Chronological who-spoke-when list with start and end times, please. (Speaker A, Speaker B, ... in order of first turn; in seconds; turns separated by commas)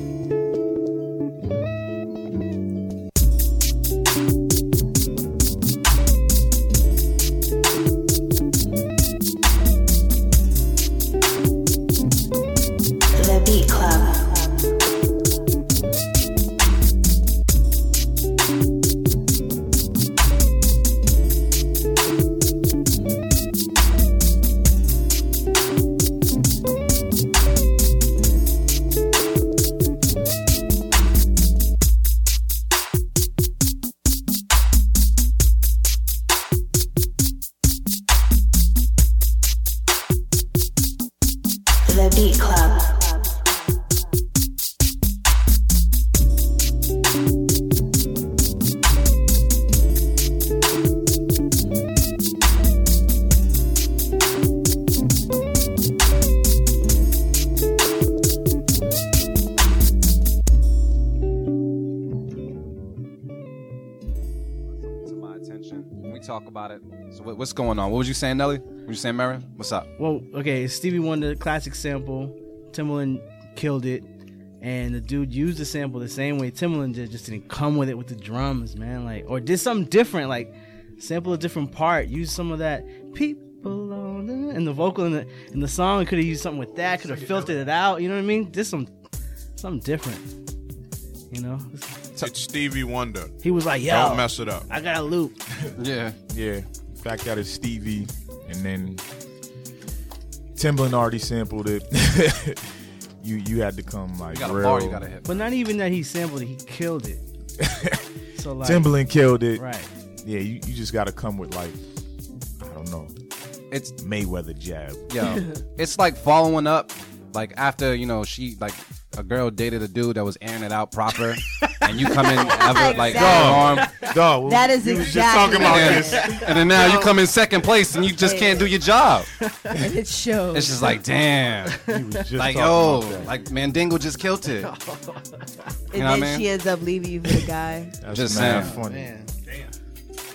Speaker A: 13.1-14.5, Speaker A: 41.9-43.4, Speaker B: 64.8-69.9, Speaker C: 70.0-74.1, Speaker C: 74.6-88.9, Speaker D: 86.8-87.6, Speaker C: 89.6-90.3, Speaker C: 91.3-92.0, Speaker E: 92.2-94.7, Speaker C: 93.4-95.4, Speaker B: 95.8-96.2, Speaker D: 96.3-99.0, Speaker D: 100.5-105.1, Speaker B: 104.3-105.5, Speaker C: 105.2-107.2, Speaker D: 107.6-108.0, Speaker C: 108.3-109.0, Speaker D: 108.6-109.6, Speaker C: 109.5-109.9, Speaker D: 110.2-111.8, Speaker D: 112.6-113.1, Speaker D: 114.0-115.1, Speaker B: 115.1-124.0, Speaker C: 121.6-122.6, Speaker F: 122.3-127.2, Speaker D: 123.1-126.6, Speaker B: 125.5-129.3, Speaker C: 126.2-126.5, Speaker F: 128.1-128.7, Speaker C: 129.4-129.8, Speaker F: 129.7-131.0, Speaker B: 130.5-131.8, Speaker C: 131.7-132.2, Speaker D: 131.8-133.3, Speaker B: 132.3-134.7, Speaker C: 134.5-135.7, Speaker F: 135.9-138.0, Speaker B: 135.9-136.5, Speaker D: 138.0-139.1, Speaker B: 138.1-138.7, Speaker C: 138.3-139.3